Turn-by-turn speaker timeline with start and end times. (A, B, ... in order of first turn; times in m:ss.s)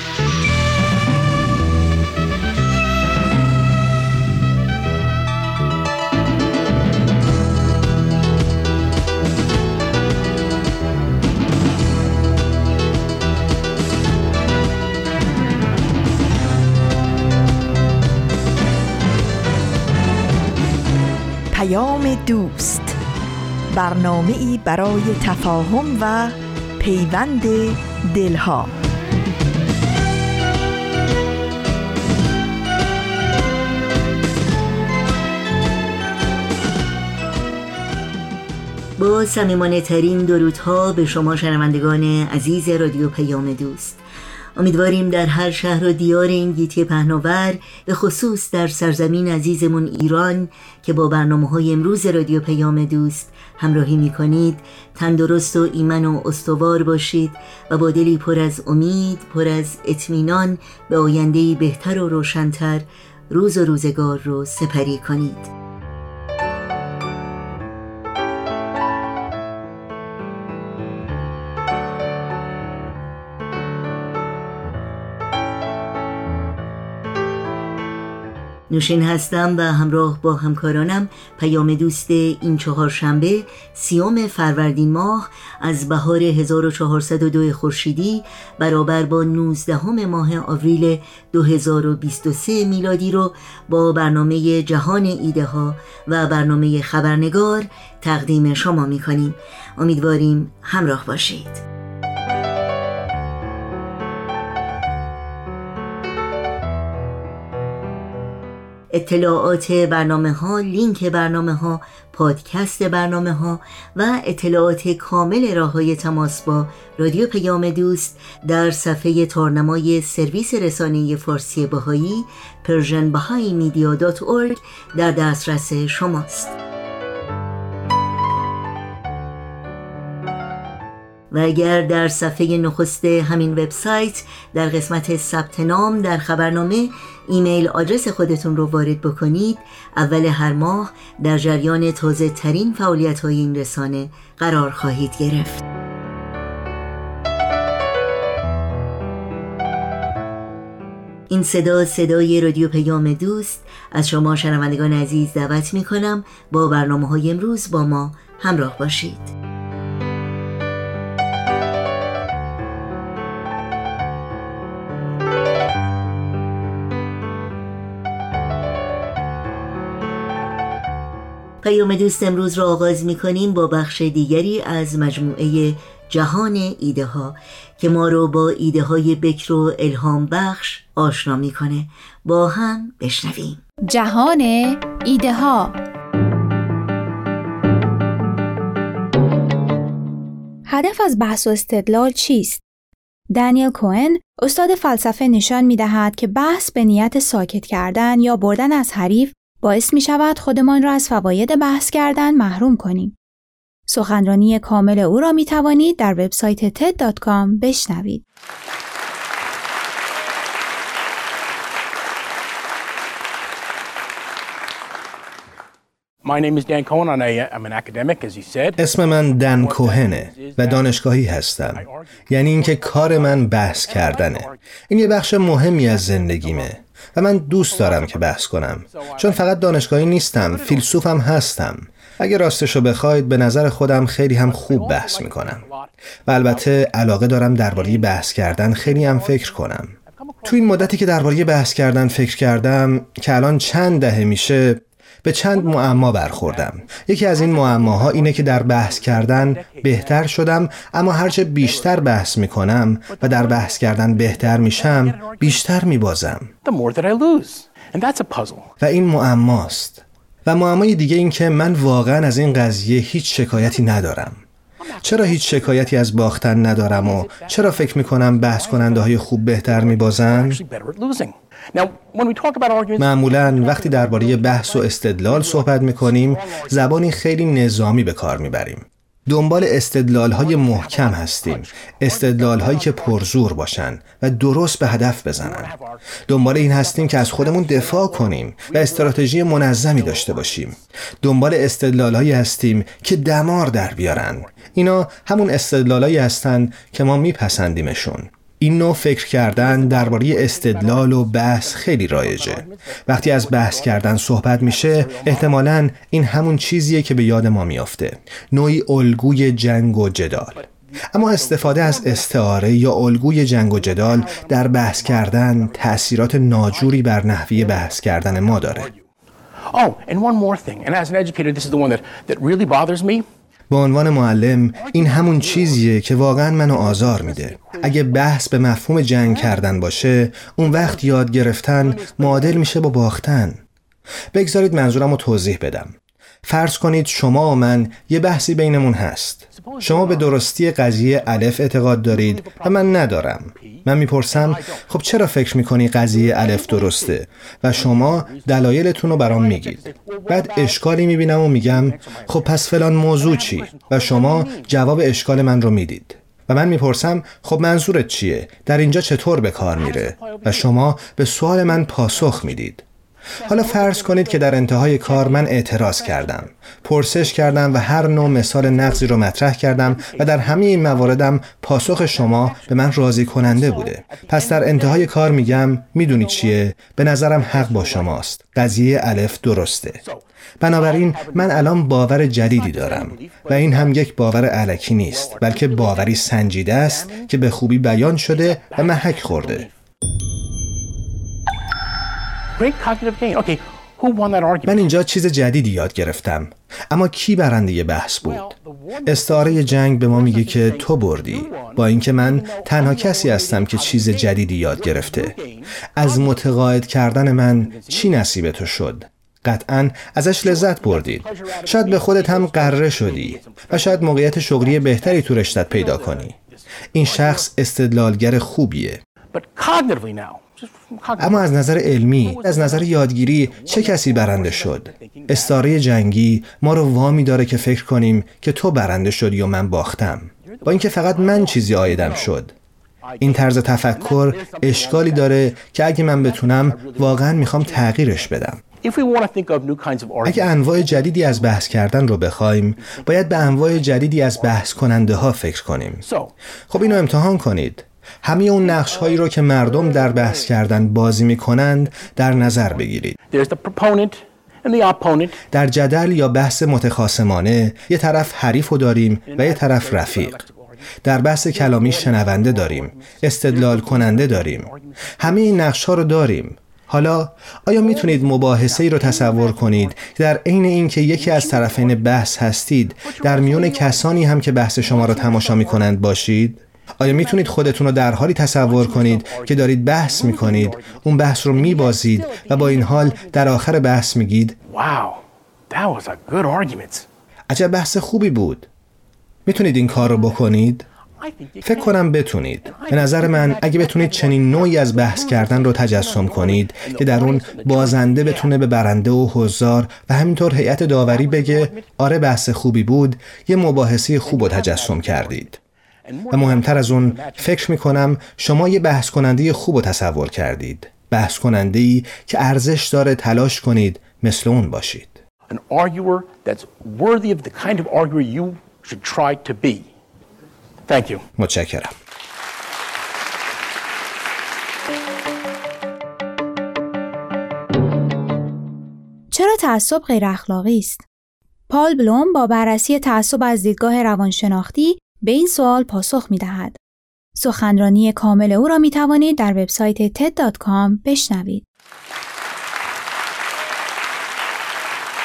0:21.5-0:23.0 A
0:23.7-0:28.7 A
0:39.0-0:44.0 B
0:44.6-1:05.5 B
1:18.7-1:41.6 B
1:48.9-2:06.6 B
2:11.3-2:25.6 B
2:31.3-2:39.3 B
2:51.6-3:03.6 B
3:03.8-3:05.8 C
3:10.6-3:12.6 C
3:13.3-3:23.1 C
3:23.9-3:28.2 C
3:36.2-3:38.8 D
3:38.8-3:55.6 E
3:39.4-3:41.0 D
3:41.6-3:44.6 D
3:45.2-3:46.8 D
3:47.4-3:51.2 D
3:54.4-3:56.9 D
3:56.2-3:59.9 E
3:57.7-4:02.2 D
4:00.4-4:16.5 E
4:05.5-4:12.4 D
4:13.1-4:15.8 D
4:16.6-4:18.7 D
4:18.8-4:24.4 E
4:23.5-4:24.1 D
4:24.8-4:37.1 D
4:25.0-4:30.6 E
4:33.0-5:18.9 E
4:40.3-4:43.6 D
4:45.1-4:50.8 D
4:53.3-4:54.7 D
4:59.4-5:05.6 D
5:10.4-5:19.0 D
5:19.7-5:23.2 D
5:23.7-5:33.6 E
5:24.7-5:28.5 D
5:29.0-5:32.7 D
5:34.3-6:02.8 E
5:39.5-5:45.4 D
5:45.9-5:54.9 D
5:59.7-6:01.0 D
6:01.6-6:02.7 D
6:03.4-6:16.6 D
6:03.4-6:20.0 E
6:17.2-6:19.1 D
6:20.0-6:27.3 D
6:20.6-6:29.7 E
6:28.2-6:29.7 D
6:32.6-6:34.9 D
6:34.6-6:45.4 E
6:38.2-6:46.7 D
6:45.9-6:56.3 E
6:47.4-6:48.3 D
6:50.4-6:57.4 D
6:56.9-6:59.0 E
6:59.3-7:05.8 D
7:01.2-7:12.5 E
7:10.4-7:12.4 D
7:13.0-7:25.4 D
7:13.2-7:18.6 E
7:20.2-7:26.0 E
7:26.0-7:27.0 D
7:26.7-7:33.2 E
7:28.6-7:30.9 D
7:32.0-7:35.4 D
7:35.5-7:40.4 E
7:39.2-7:45.6 D
7:41.0-8:04.6 E
7:47.8-7:50.1 D
7:51.1-7:52.4 D
7:53.0-7:56.0 D
7:57.0-8:03.7 D
8:04.7-8:07.1 D
8:07.5-8:08.7 E
8:09.4-8:10.8 E
8:09.9-8:10.4 D
8:11.2-8:12.0 D
8:11.6-8:25.6 E
8:12.6-8:18.5 D
8:21.0-8:21.9 D
8:23.7-8:27.9 D
8:26.3-8:35.2 E
8:35.5-8:39.9 D
8:40.9-8:41.2 D
8:41.4-8:41.9 E
8:49.3-8:51.0 C
8:51.7-8:56.8 C
8:57.3-9:01.6 C